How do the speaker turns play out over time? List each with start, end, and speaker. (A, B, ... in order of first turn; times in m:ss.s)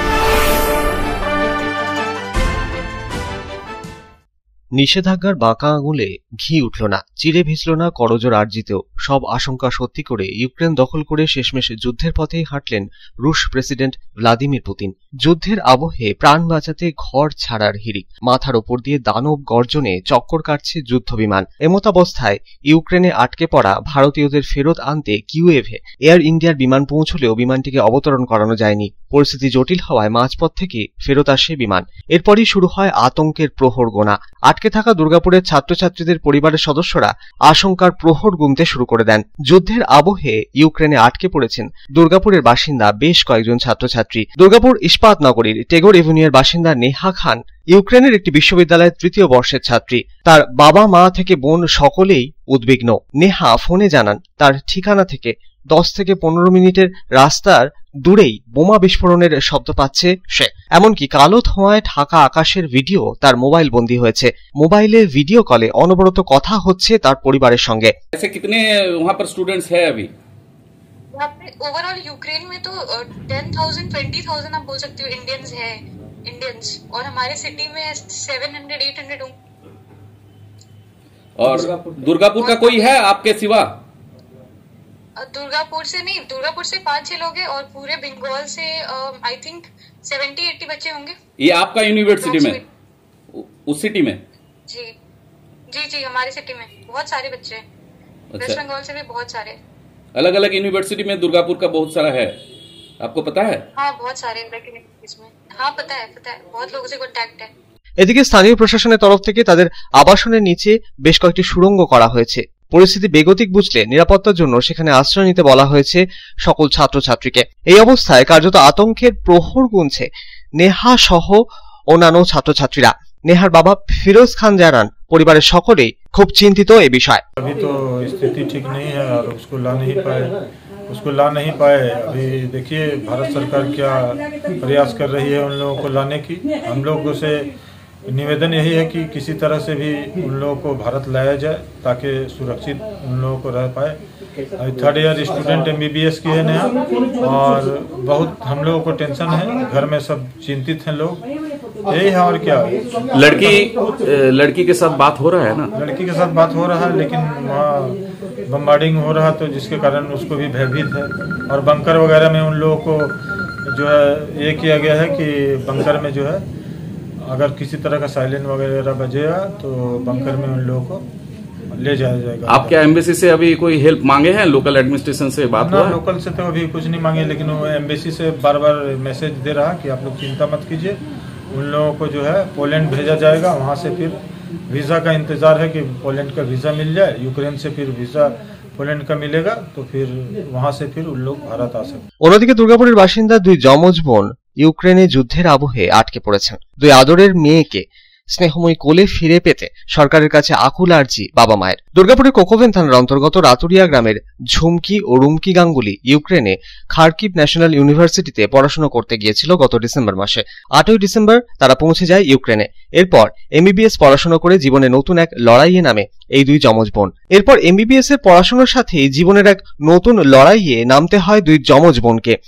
0:04.8-1:07.9 A
1:08.2-1:10.1 B
1:11.1-1:19.4 C
1:21.4-1:23.7 B
1:22.2-1:23.3 C
1:25.2-1:31.2 C
1:31.4-1:32.6 B
1:32.0-1:32.7 C
1:33.7-1:34.2 B
1:34.7-1:34.9 C
1:35.7-1:37.6 C
1:38.4-1:39.6 C
1:40.2-1:42.3 B
1:43.0-1:43.7 B
1:43.8-1:47.5 C
1:48.0-2:00.1 A
2:00.6-2:07.2 A
2:07.4-2:17.5 D
2:18.1-2:24.0 D
2:24.6-2:31.2 D
2:31.9-2:33.3 D
2:33.2-2:35.7 B
2:35.8-2:43.2 D
2:43.7-2:46.4 D
2:47.2-2:51.0 D
2:51.7-2:53.0 D
2:52.6-2:55.9 B
2:55.6-3:01.0 D
3:01.5-3:12.0 D
3:12.2-3:42.3 A